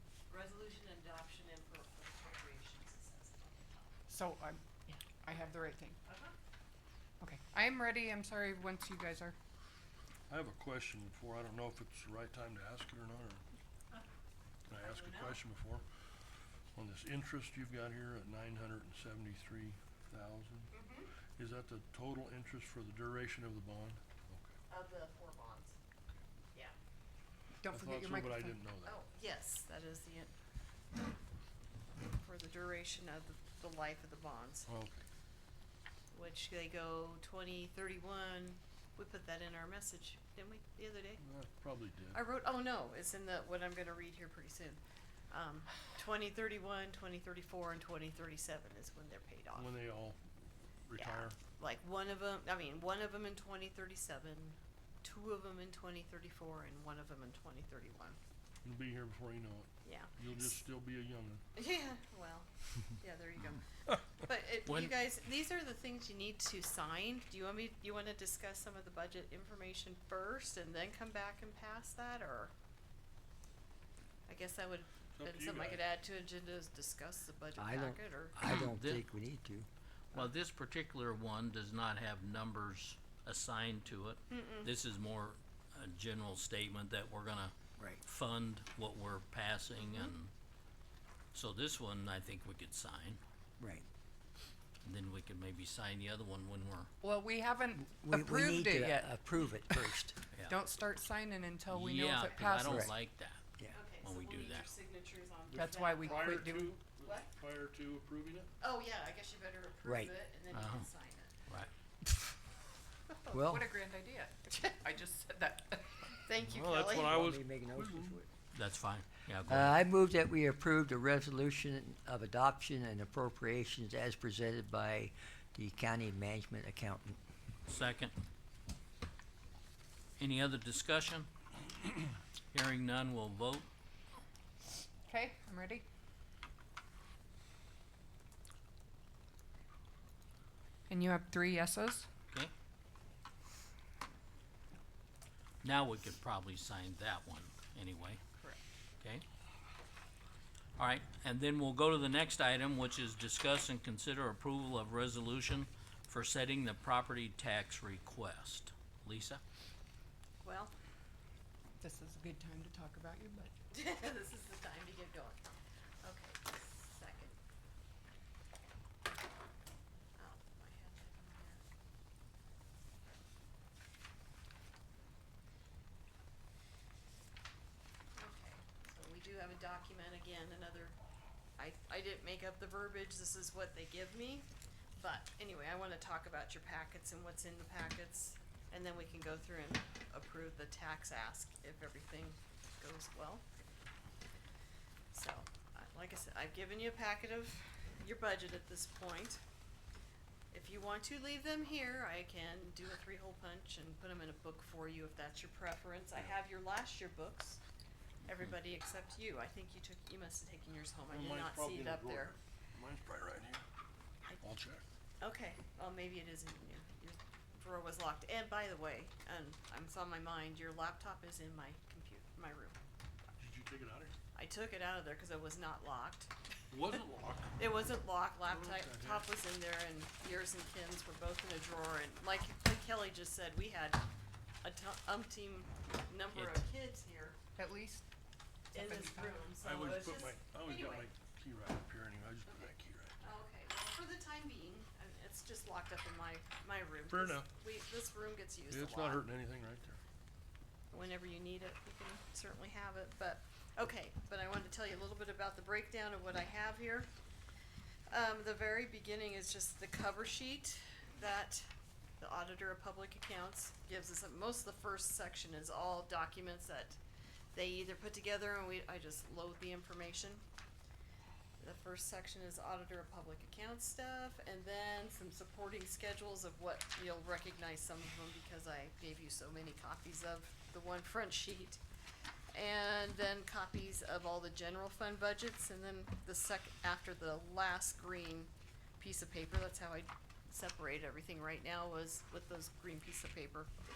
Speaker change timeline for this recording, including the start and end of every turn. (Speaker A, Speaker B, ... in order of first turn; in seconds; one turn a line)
Speaker A: 0.3-3.9
Speaker B: 4.1-6.0
Speaker A: 5.3-6.3
Speaker B: 7.2-9.4
Speaker C: 10.3-13.4
Speaker C: 14.7-15.9
Speaker A: 14.8-15.4
Speaker C: 16.7-20.7
Speaker A: 20.7-21.1
Speaker C: 21.4-24.5
Speaker A: 24.7-25.8
Speaker B: 27.6-28.6
Speaker C: 27.7-28.9
Speaker A: 28.8-30.3
Speaker A: 32.2-34.7
Speaker C: 34.7-35.0
Speaker A: 36.1-41.2
Speaker C: 41.2-42.2
Speaker A: 42.1-49.7
Speaker C: 49.5-50.2
Speaker C: 50.9-51.4
Speaker A: 50.9-58.2
Speaker C: 58.6-61.4
Speaker A: 59.8-60.6
Speaker A: 61.5-72.5
Speaker D: 64.7-64.9
Speaker A: 74.3-78.4
Speaker C: 75.1-75.8
Speaker E: 77.6-79.7
Speaker D: 78.3-79.0
Speaker D: 80.1-90.3
Speaker A: 84.3-84.7
Speaker A: 89.8-90.1
Speaker D: 91.3-93.2
Speaker E: 93.6-93.8
Speaker D: 94.8-96.9
Speaker B: 97.0-99.2
Speaker E: 97.8-100.2
Speaker B: 99.7-102.9
Speaker D: 101.7-103.4
Speaker E: 102.6-102.9
Speaker A: 103.7-106.5
Speaker D: 104.0-104.7
Speaker B: 105.5-106.8
Speaker C: 105.5-108.5
Speaker A: 107.0-107.3
Speaker A: 108.6-111.3
Speaker E: 109.8-110.1
Speaker D: 110.5-110.9
Speaker E: 113.3-113.7
Speaker B: 113.3-116.2
Speaker A: 114.5-114.8
Speaker A: 116.2-117.2
Speaker C: 116.4-118.2
Speaker E: 117.0-118.3
Speaker D: 118.5-119.8
Speaker E: 119.5-127.2
Speaker D: 127.7-128.1
Speaker D: 130.2-131.3
Speaker D: 132.5-133.7
Speaker B: 135.1-135.8
Speaker B: 140.9-142.1
Speaker D: 145.6-148.2
Speaker D: 150.8-159.4
Speaker A: 160.4-160.7
Speaker B: 161.8-163.5
Speaker A: 163.7-165.4
Speaker A: 166.0-167.4
Speaker A: 170.2-171.6
Speaker A: 178.2-180.9
Speaker A: 181.6-193.4
Speaker A: 195.1-199.4
Speaker A: 200.5-207.6
Speaker A: 208.2-212.3
Speaker C: 211.1-213.6
Speaker C: 214.4-214.8
Speaker A: 215.2-222.8
Speaker C: 223.4-224.1
Speaker A: 224.3-226.3
Speaker C: 226.7-227.7
Speaker A: 227.6-234.0
Speaker C: 228.4-229.3
Speaker A: 234.6-237.4
Speaker D: 236.3-236.6
Speaker B: 237.6-238.0
Speaker A: 238.7-241.1
Speaker B: 238.8-239.5
Speaker C: 239.6-243.2
Speaker A: 242.5-249.2
Speaker C: 247.1-247.5
Speaker C: 248.7-250.0
Speaker A: 250.9-257.1
Speaker A: 258.1-261.7
Speaker A: 262.2-267.0
Speaker A: 267.5-270.4
Speaker A: 271.6-281.8
Speaker A: 282.5-293.7